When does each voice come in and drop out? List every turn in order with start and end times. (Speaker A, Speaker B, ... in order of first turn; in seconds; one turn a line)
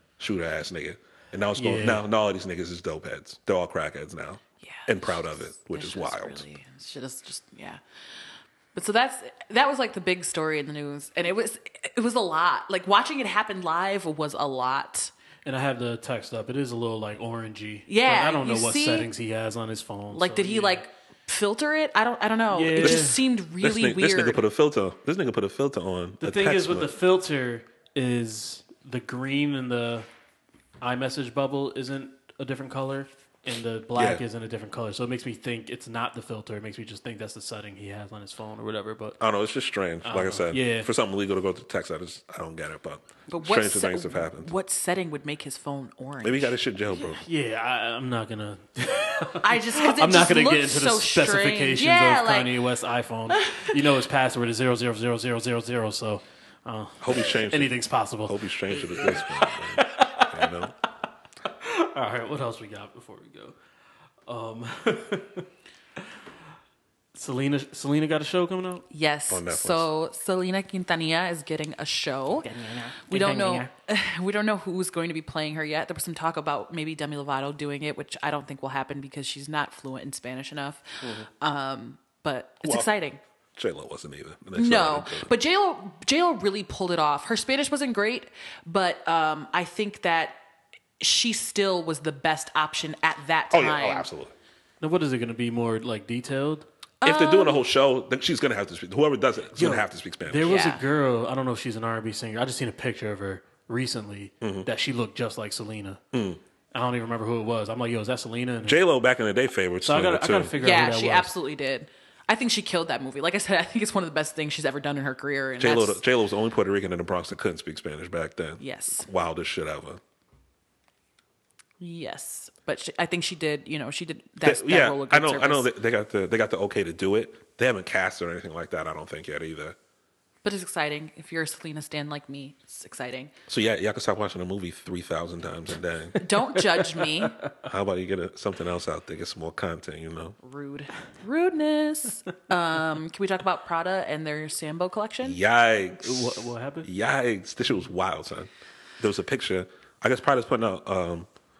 Speaker A: 0.2-6.4
Speaker B: 1.6-2.0
Speaker C: 4.6-7.8
Speaker C: 8.7-15.1
Speaker B: 15.4-20.8
Speaker C: 17.9-19.1
Speaker C: 20.1-24.4
Speaker B: 22.5-23.2
Speaker A: 22.8-26.9
Speaker B: 26.2-30.1
Speaker B: 30.8-39.2
Speaker A: 33.9-34.2
Speaker A: 39.2-44.5
Speaker B: 40.0-40.9
Speaker C: 43.3-46.6
Speaker A: 46.2-47.2
Speaker B: 47.1-60.5
Speaker C: 49.4-52.5
Speaker C: 53.3-53.7
Speaker A: 57.0-60.7
Speaker B: 61.5-63.6
Speaker B: 64.3-65.5
Speaker B: 67.1-68.8
Speaker C: 68.9-72.5
Speaker A: 69.3-69.9
Speaker B: 72.4-73.7
Speaker C: 73.0-83.2
Speaker A: 81.0-81.3
Speaker A: 83.5-85.3
Speaker C: 84.5-90.4
Speaker C: 91.0-94.0
Speaker A: 93.5-94.3
Speaker B: 94.8-96.7
Speaker C: 97.0-97.6
Speaker A: 97.0-100.5
Speaker B: 99.6-106.0
Speaker C: 100.4-100.8
Speaker A: 104.4-104.7
Speaker A: 106.1-106.4
Speaker B: 106.7-108.8
Speaker A: 108.6-110.5
Speaker B: 109.8-111.3
Speaker C: 110.6-116.0
Speaker A: 115.6-120.0
Speaker C: 118.6-119.1
Speaker C: 121.8-125.7
Speaker A: 124.4-129.8
Speaker C: 130.4-133.3
Speaker A: 133.5-136.2
Speaker C: 136.2-137.4
Speaker B: 136.2-137.5
Speaker A: 137.6-140.3
Speaker C: 140.4-145.4
Speaker A: 145.2-151.3
Speaker B: 146.0-146.9